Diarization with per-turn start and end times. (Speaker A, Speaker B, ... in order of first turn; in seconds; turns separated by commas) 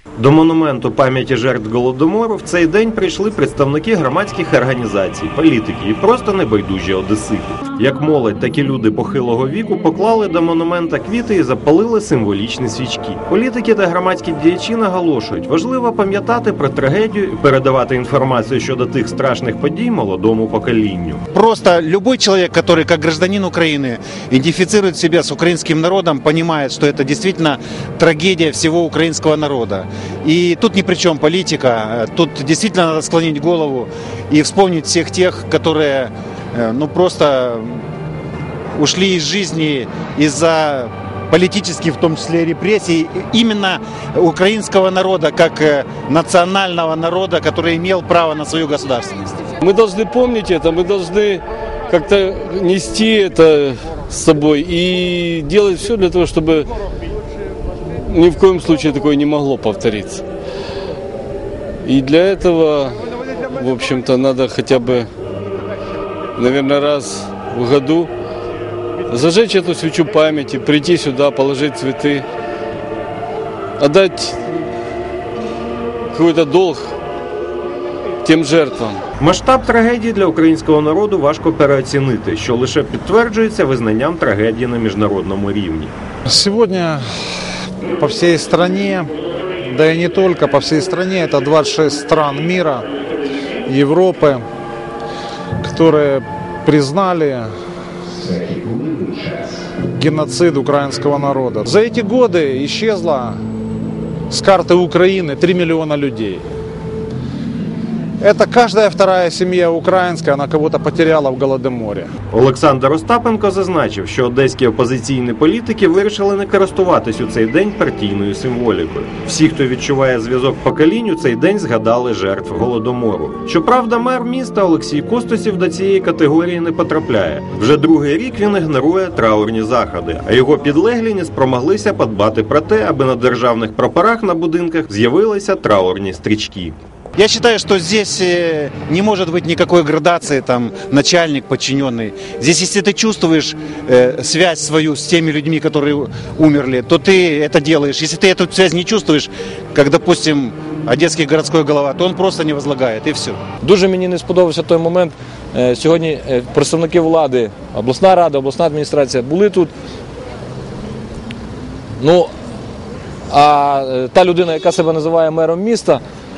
Speaker A: 0.2-21.2, Speaker B: 21.3-37.8, Speaker B: 38.8-49.4, Speaker C: 49.6-56.7, Speaker C: 58.1-60.2, Speaker C: 61.8-63.0, Speaker C: 63.5-65.1, Speaker C: 66.4-68.1, Speaker C: 69.1-72.2, Speaker C: 73.8-74.5, Speaker C: 76.1-76.9, Speaker C: 78.2-79.0, Speaker A: 79.2-85.9, Speaker D: 86.3-87.1, Speaker D: 88.0-92.9, Speaker D: 93.7-94.4, Speaker D: 95.6-97.5, Speaker D: 99.9-103.4, Speaker D: 104.3-106.5, Speaker D: 108.2-112.1, Speaker A: 112.3-136.8, Speaker B: 137.2-153.4, Speaker E: 153.6-159.7, Speaker E: 162.0-162.3, Speaker E: 163.3-166.0